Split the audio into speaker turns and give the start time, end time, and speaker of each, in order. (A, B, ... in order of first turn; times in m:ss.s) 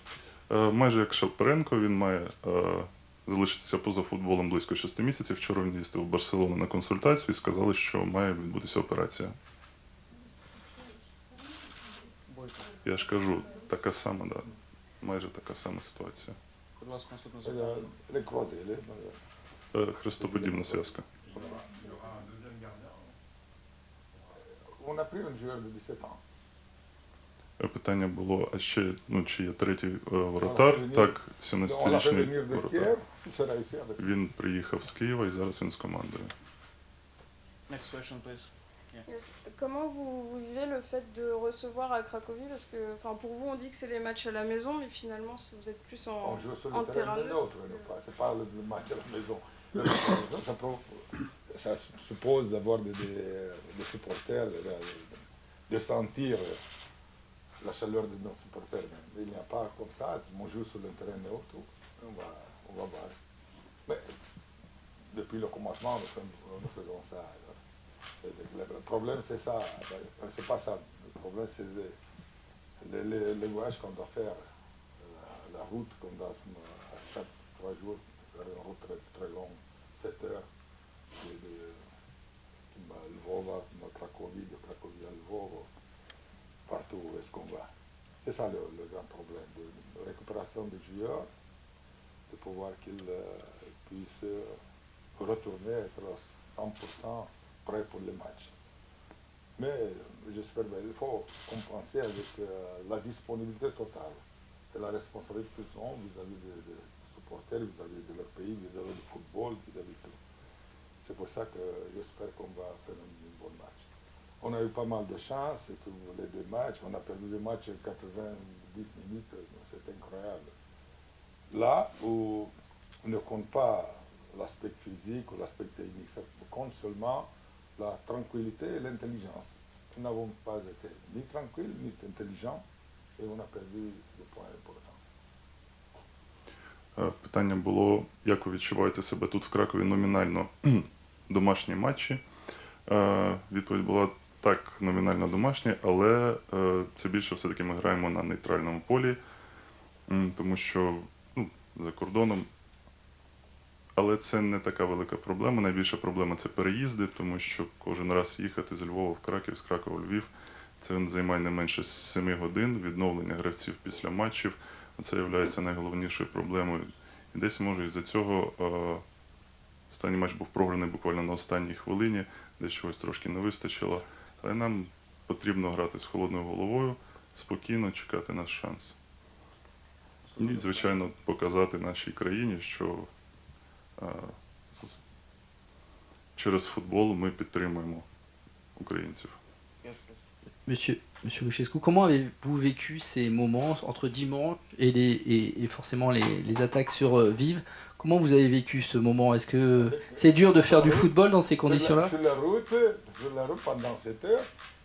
0:00.5-0:09.4 A
0:12.3-0:12.8 B
0:12.8-0:16.4 A
0:16.8-0:17.9 B
0:17.4-0:19.2 C
0:19.7-0:21.1 A
0:20.2-0:22.4 C
0:24.4-0:26.2 C
0:27.6-0:33.0 A
0:30.4-0:34.0 C
0:34.0-0:36.3 A
0:37.7-0:39.1 B
0:39.1-0:46.3 D
0:46.2-0:56.6 C
0:46.4-0:47.4 E
0:46.9-0:47.4 D
0:57.6-1:03.2 C
1:05.1-1:07.6 C
1:08.2-1:12.0 C
1:12.8-1:14.4 C
1:15.0-1:20.5 C
1:21.2-1:21.8 C
1:22.7-1:25.7 C
1:26.7-1:27.7 C
1:28.2-1:31.3 C
1:32.3-1:34.6 C
1:35.2-1:38.5 C
1:39.6-1:50.2 C
1:51.0-1:53.9 C
1:54.4-2:00.5 C
2:01.5-2:02.5 C
2:03.0-2:12.6 C
2:13.2-2:15.0 C
2:17.0-2:22.2 A
2:22.9-2:29.2 A
2:30.1-2:32.5 A
2:34.0-2:49.0 A
2:49.9-2:59.0 A
3:00.2-3:01.1 B
3:00.4-3:03.1 A
3:04.0-3:05.0 A
3:06.4-3:08.1 A
3:08.8-3:09.4 A
3:09.8-3:10.3 B
3:10.7-3:22.2 E
3:19.7-3:24.5 C